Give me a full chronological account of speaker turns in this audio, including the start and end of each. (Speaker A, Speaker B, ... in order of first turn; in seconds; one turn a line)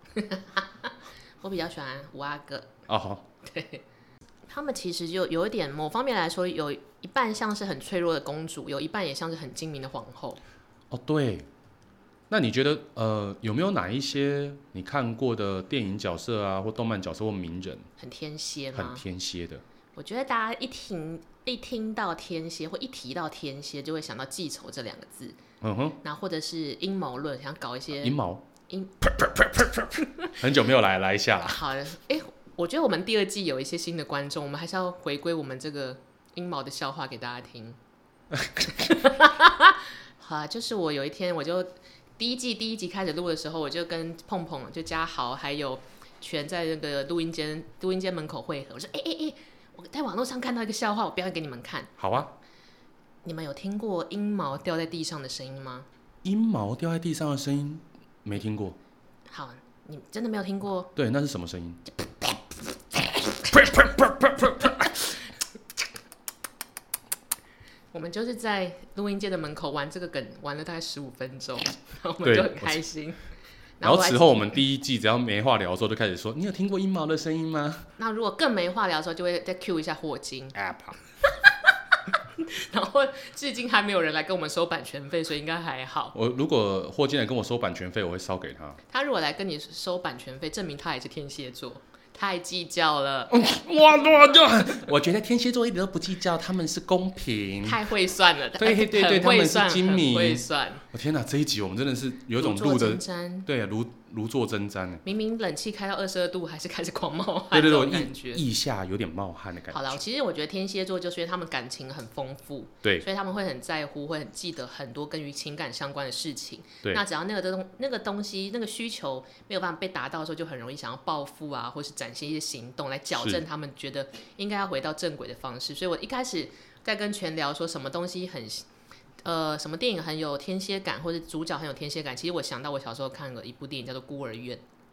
Speaker A: 0.1-2.8
Speaker B: 2.9-3.2
Speaker A: 3.4-3.8
Speaker A: 4.5-10.4
Speaker B: 10.9-11.5
Speaker B: 12.3-17.9
Speaker A: 18.0-19.0
Speaker B: 18.7-19.6
Speaker A: 19.9-25.4
Speaker B: 25.6-26.0
Speaker A: 26.0-28.1
Speaker B: 28.0-28.5
Speaker A: 28.7-29.1
Speaker B: 29.2-31.6
Speaker A: 30.0-30.3
Speaker A: 31.4-37.8
Speaker B: 38.3-38.8
Speaker A: 38.6-51.9
Speaker B: 52.0-52.3
Speaker A: 53.2-55.9
Speaker B: 56.2-58.8
Speaker A: 59.3-60.9
Speaker B: 61.0-61.8
Speaker B: 63.5-65.0
Speaker A: 67.9-73.2
Speaker B: 72.2-72.8
Speaker A: 73.8-74.6
Speaker B: 73.8-77.9
Speaker A: 78.0-80.5
Speaker B: 80.5-81.0
Speaker A: 82.1-86.1
Speaker B: 86.1-88.8
Speaker A: 88.9-93.3
Speaker B: 93.3-97.8
Speaker A: 97.6-100.8
Speaker B: 98.6-105.0
Speaker A: 102.4-103.5
Speaker A: 105.0-108.4
Speaker B: 107.5-110.0
Speaker A: 109.7-128.6
Speaker B: 123.1-123.4
Speaker A: 129.2-134.6